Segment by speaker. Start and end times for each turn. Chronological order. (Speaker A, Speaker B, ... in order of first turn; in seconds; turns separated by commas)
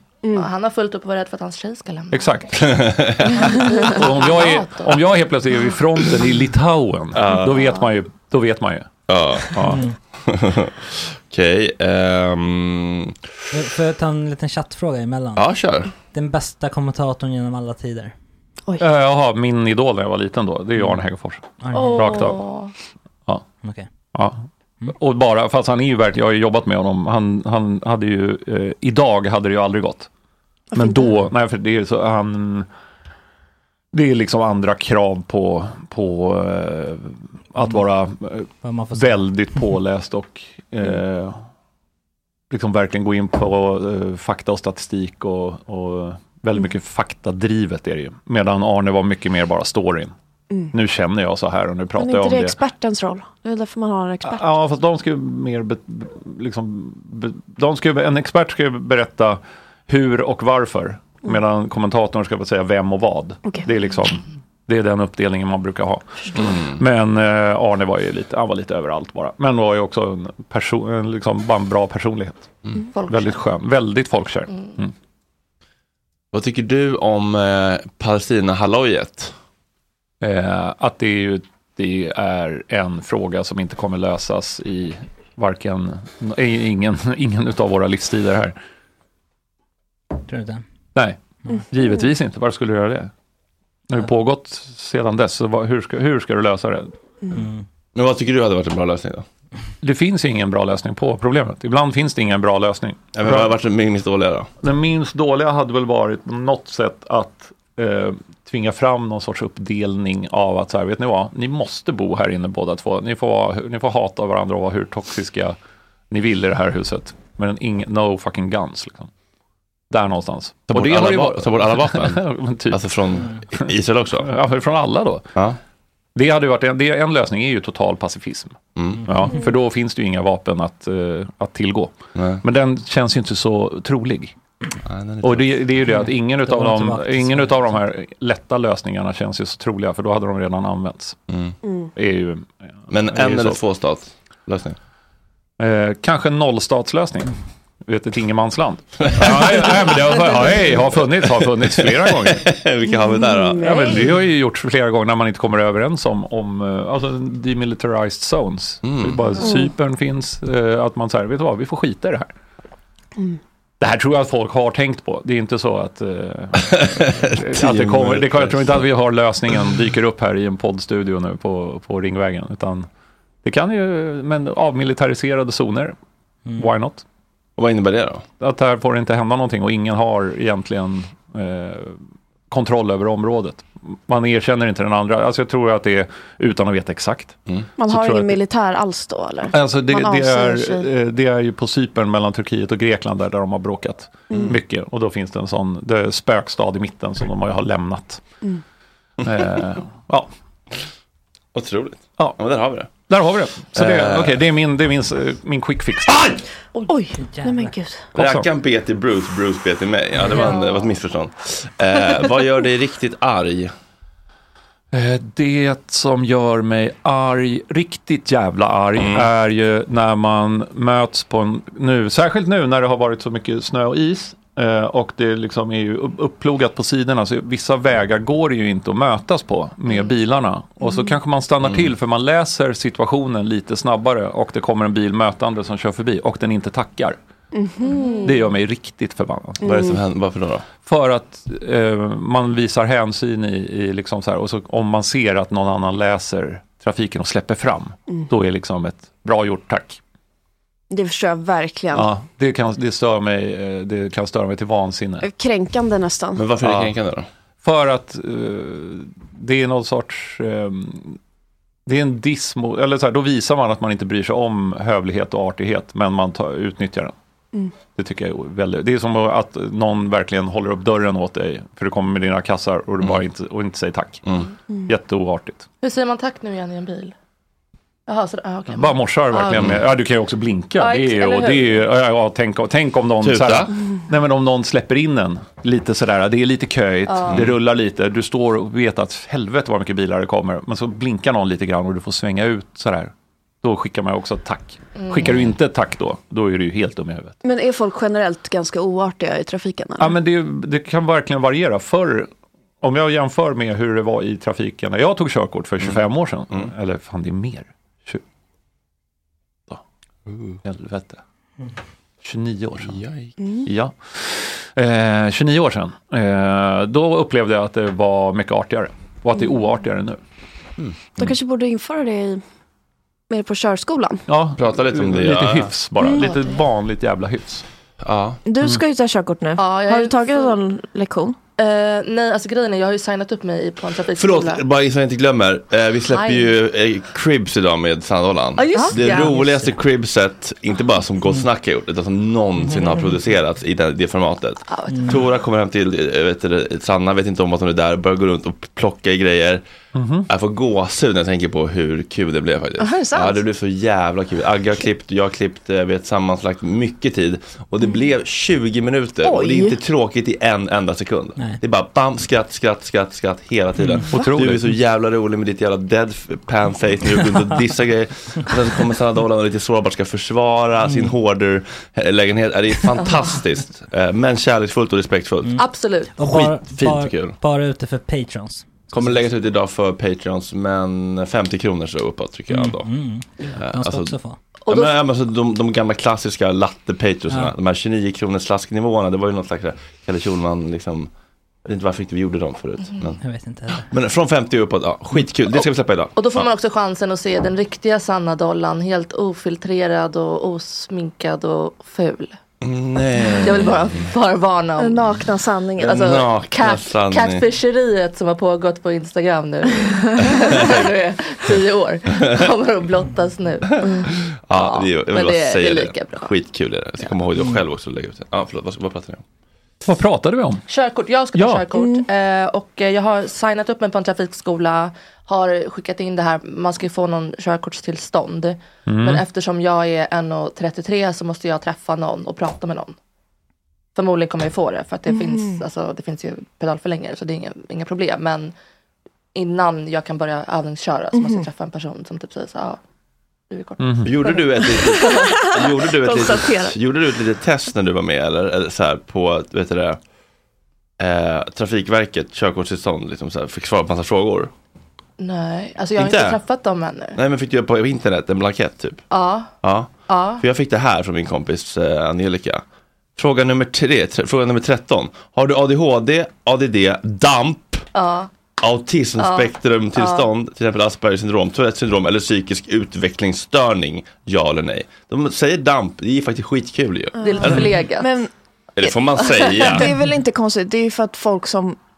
Speaker A: 0.3-2.4, Speaker B: 2.1-2.5, Speaker C: 2.5-3.5, Speaker A: 3.4-5.0, Speaker B: 3.9-9.8, Speaker C: 7.1-7.7, Speaker C: 9.1-13.2, Speaker D: 9.7-9.9, Speaker D: 13.5-15.5, Speaker C: 15.3-15.9, Speaker D: 16.1-18.1, Speaker B: 18.8-22.4, Speaker D: 21.6-22.3, Speaker A: 21.7-22.7, Speaker B: 24.1-24.4, Speaker B: 24.9-30.1, Speaker E: 30.7-31.1, Speaker B: 30.7-32.7, Speaker B: 33.9-41.4, Speaker D: 38.6-39.4, Speaker B: 42.5-50.1, Speaker B: 50.7-52.6, Speaker E: 52.0-54.4, Speaker B: 54.2-72.5, Speaker C: 66.4-66.8, Speaker A: 72.9-73.4, Speaker B: 73.1-74.9, Speaker A: 74.5-74.7, Speaker C: 76.3-79.3, Speaker B: 80.2-88.5, Speaker D: 90.3-90.6, Speaker B: 90.9-93.1, Speaker B: 93.9-96.9, Speaker D: 97.3-97.6, Speaker C: 97.9-99.2, Speaker B: 99.8-103.5, Speaker C: 103.1-104.5, Speaker B: 104.6-115.5, Speaker B: 116.1-119.1, Speaker B: 119.9-122.8, Speaker C: 120.7-124.3, Speaker D: 123.2-123.4, Speaker B: 124.2-125.3, Speaker B: 126.1-134.3, Speaker C: 128.8-129.0, Speaker D: 128.9-129.3, Speaker C: 132.1-132.4, Speaker C: 134.8-135.6, Speaker B: 135.2-141.2, Speaker D: 135.8-137.8, Speaker C: 141.3-141.5, Speaker E: 141.6-141.9, Speaker B: 141.9-143.6, Speaker C: 142.9-144.8, Speaker B: 145.6-147.3, Speaker B: 147.8-152.4, Speaker C: 149.0-150.1, Speaker C: 151.2-153.9, Speaker E: 152.9-154.1, Speaker B: 153.6-162.3, Speaker C: 158.8-159.2, Speaker E: 159.4-159.7, Speaker B: 163.8-172.9, Speaker C: 166.6-168.8, Speaker B: 173.4-175.9, Speaker D: 176.4-176.7, Speaker B: 176.6-177.0, Speaker C: 177.6-178.2, Speaker B: 178.4-188.4, Speaker E: 187.8-190.9, Speaker B: 189.5-198.2, Speaker B: 199.2-200.3, Speaker C: 201.5-202.9, Speaker B: 203.1-206.2, Speaker C: 203.7-204.4, Speaker E: 206.9-208.0, Speaker D: 207.2-207.7, Speaker B: 208.1-208.5, Speaker C: 208.1-213.7, Speaker A: 210.3-210.9, Speaker B: 214.9-237.2, Speaker C: 219.0-219.3, Speaker E: 237.5-238.4, Speaker B: 238.2-239.6, Speaker C: 239.6-240.7, Speaker E: 239.6-240.0, Speaker B: 240.8-250.0, Speaker E: 250.9-252.1, Speaker B: 251.9-255.3, Speaker E: 255.2-256.4, Speaker C: 256.4-257.3, Speaker B: 256.6-256.9, Speaker B: 257.6-261.2, Speaker B: 261.9-267.1, Speaker B: 267.9-274.2, Speaker B: 274.9-275.6, Speaker A: 275.8-277.1, Speaker A: 278.1-279.8, Speaker B: 278.7-293.1, Speaker C: 279.5-279.8, Speaker A: 280.8-281.8, Speaker C: 283.2-283.7, Speaker A: 287.1-287.4, Speaker B: 293.6-297.3, Speaker A: 294.9-295.3, Speaker E: 297.4-300.1, Speaker B: 300.0-302.3, Speaker B: 302.8-308.2, Speaker C: 310.3-310.6, Speaker B: 310.6-311.2, Speaker B: 312.2-313.0, Speaker C: 312.8-313.3, Speaker E: 313.4-313.6, Speaker B: 313.6-320.2, Speaker E: 321.1-322.4, Speaker E: 323.3-324.2, Speaker B: 324.3-327.6, Speaker C: 324.6-325.7, Speaker A: 326.2-326.5, Speaker C: 328.0-328.4, Speaker E: 328.4-331.4, Speaker A: 329.6-330.5, Speaker A: 331.6-334.6, Speaker C: 334.1-349.6, Speaker A: 336.1-336.5, Speaker A: 338.6-339.6, Speaker D: 339.1-339.7, Speaker D: 342.7-343.0, Speaker A: 344.7-345.2, Speaker D: 344.9-345.2, Speaker B: 349.9-350.3, Speaker C: 350.3-375.6, Speaker E: 352.8-353.4, Speaker E: 359.2-359.8, Speaker D: 361.4-361.6, Speaker D: 363.8-364.1, Speaker B: 364.1-364.7, Speaker D: 370.8-371.1, Speaker D: 375.4-379.2, Speaker A: 375.6-376.1, Speaker C: 376.2-377.4, Speaker C: 378.9-382.9, Speaker D: 382.5-384.4, Speaker C: 383.5-384.1, Speaker A: 384.7-384.9, Speaker C: 384.7-391.1, Speaker D: 387.3-387.5, Speaker C: 391.6-393.2, Speaker D: 393.2-393.9, Speaker C: 393.9-396.4, Speaker A: 396.1-402.4, Speaker C: 402.6-404.1, Speaker A: 403.4-405.3, Speaker E: 404.8-406.2, Speaker C: 405.8-407.4, Speaker A: 405.8-416.3, Speaker C: 410.2-410.9, Speaker C: 413.9-419.2, Speaker D: 417.4-417.6, Speaker B: 419.8-420.6, Speaker A: 420.7-432.9, Speaker B: 421.3-421.6, Speaker E: 421.7-422.1, Speaker B: 428.9-429.2, Speaker A: 433.9-438.5, Speaker E: 435.1-435.5, Speaker A: 439.3-442.8, Speaker E: 441.1-441.4, Speaker A: 443.5-444.4, Speaker B: 443.8-444.1, Speaker C: 444.0-450.0, Speaker E: 444.9-446.7, Speaker A: 444.9-445.3, Speaker C: 451.0-454.5, Speaker A: 455.2-457.2, Speaker C: 455.9-456.4, Speaker C: 457.1-459.0, Speaker A: 459.1-459.5, Speaker C: 459.6-462.6, Speaker A: 460.1-460.4, Speaker C: 463.2-467.9, Speaker A: 467.9-468.3, Speaker C: 468.6-477.7, Speaker A: 469.2-470.3, Speaker E: 477.2-478.3, Speaker A: 477.2-478.1, Speaker C: 478.8-479.9, Speaker E: 479.6-481.8